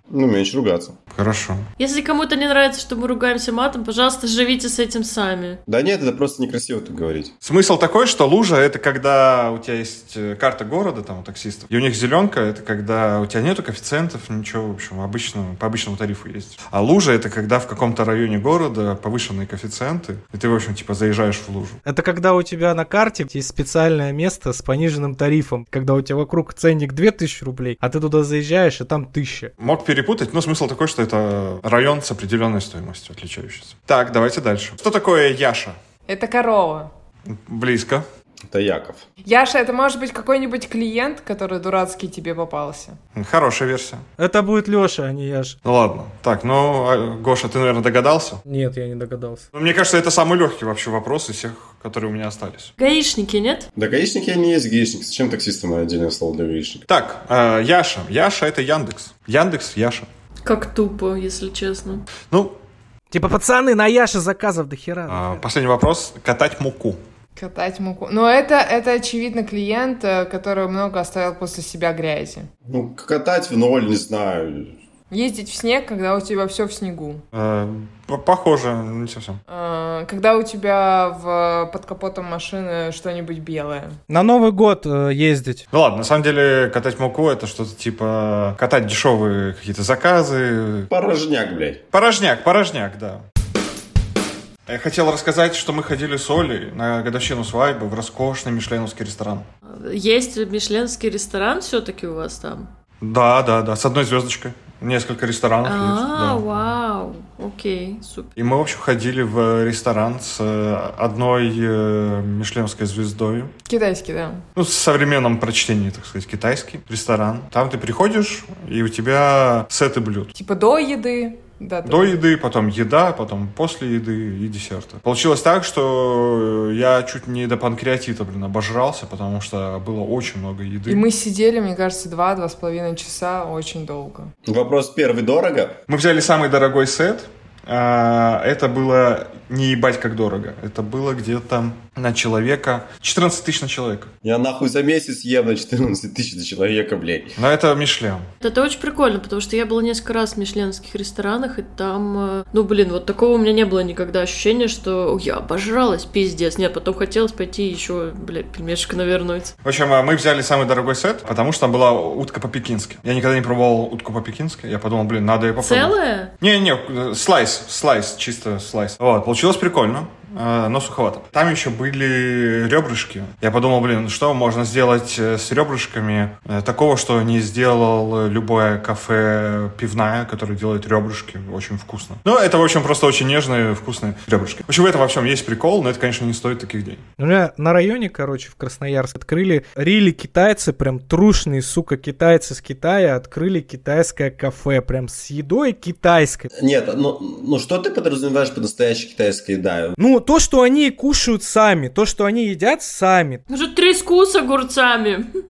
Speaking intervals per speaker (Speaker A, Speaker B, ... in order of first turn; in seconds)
Speaker A: 0.1-0.9, 5.7-7.3, 38.5-39.0, 53.8-56.9, 72.7-74.7, 90.9-91.8, 134.4-135.8, 144.2-147.3, 196.5-200.0
Speaker B: 1.1-1.6, 7.4-21.8, 29.6-35.8, 37.3-38.0, 43.1-44.0, 45.6-48.4, 49.5-52.7, 56.9-60.1, 62.3-62.5, 65.1-67.0, 77.3-79.4, 85.7-90.9, 91.9-93.2, 94.7-99.5, 103.0-106.5, 108.4-113.5, 114.5-120.3, 121.8-131.0, 135.9-144.1, 147.4-148.3, 159.6-187.0
Speaker C: 1.8-5.6, 52.8-53.7, 60.4-62.0, 99.7-102.7, 105.6-108.3, 148.4-159.5, 165.6-166.3, 203.5-205.3
Speaker D: 21.8-29.5, 44.2-45.6, 48.5-49.5, 63.1-65.4, 84.1-85.7, 187.2-196.5, 200.0-203.4
Speaker E: 36.1-36.9, 39.2-43.0, 67.3-72.5, 75.1-77.2, 79.5-84.0, 113.7-114.4, 120.3-122.2, 130.9-134.3